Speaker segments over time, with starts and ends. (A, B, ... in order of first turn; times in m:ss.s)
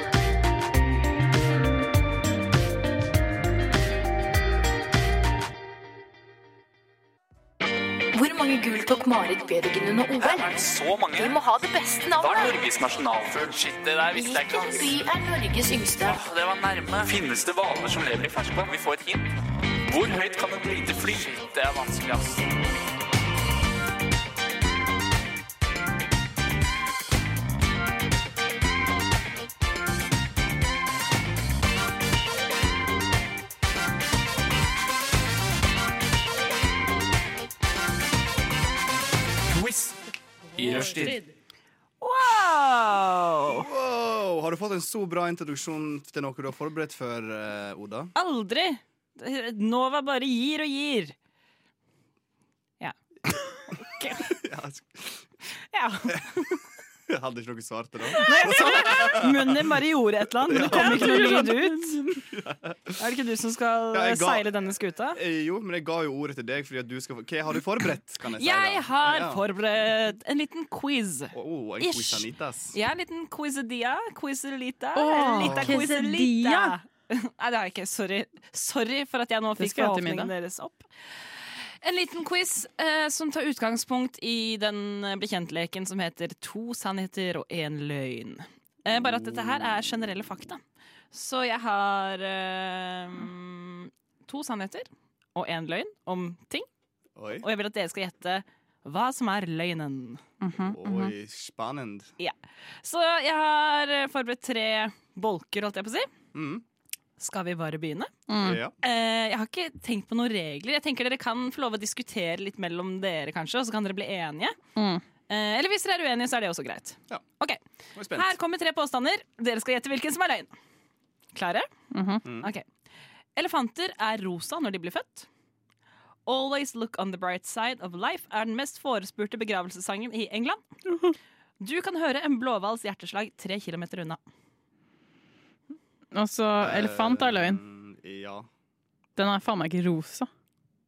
0:08.1-0:10.5 A
0:10.2-0:11.4 B
0:11.2-0:12.6 A
0:12.2-0:15.0 B
0:14.1-0:16.2 A
0:16.0-0:19.3 B
0:19.9-0:22.5 B
0:39.5-0:40.0 B
0:40.6-0:41.3 C
0:40.6-0:41.2 B
0:42.0-0:43.7 D
0:43.5-0:48.1 E
0:48.2-0:51.2 D
0:53.7-0:54.3 D
0:54.3-0:55.3 E
0:55.7-0:56.6 D
0:57.1-0:59.7 E
0:58.2-1:02.0 D
0:58.2-0:59.0 C
1:00.4-1:01.4 E
1:00.6-1:02.2 C
1:02.3-1:03.0 E
1:03.0-1:05.2 D
1:03.9-1:09.4 E
1:08.4-1:20.9 D
1:11.3-1:12.8 E
1:15.0-1:16.8 C
1:15.4-1:15.8 E
1:19.6-1:20.3 C
1:21.8-1:30.6 D
1:29.0-1:29.6 E
1:31.1-1:36.7 D
1:37.2-1:37.5 E
1:37.4-1:40.2 D
1:40.4-1:41.1 C
1:40.7-1:42.1 E
1:42.2-1:46.1 D
1:46.3-1:46.6 E
1:47.2-1:48.1 D
1:48.3-1:48.6 C
1:48.4-1:48.8 E
1:48.8-1:54.6 D
1:54.8-1:55.0 C
1:55.3-1:57.6 D
1:58.0-1:58.4 E
1:58.1-2:00.5 D
2:01.3-2:01.7 D
2:01.9-2:02.2 C
2:02.2-2:02.5 E
2:02.4-2:02.6 D
2:03.4-2:05.3 D
2:06.3-2:10.6 D
2:10.9-2:11.1 C
2:11.6-2:14.2 D
2:16.1-2:17.6 C
2:16.6-2:18.5 E
2:19.2-2:20.3 C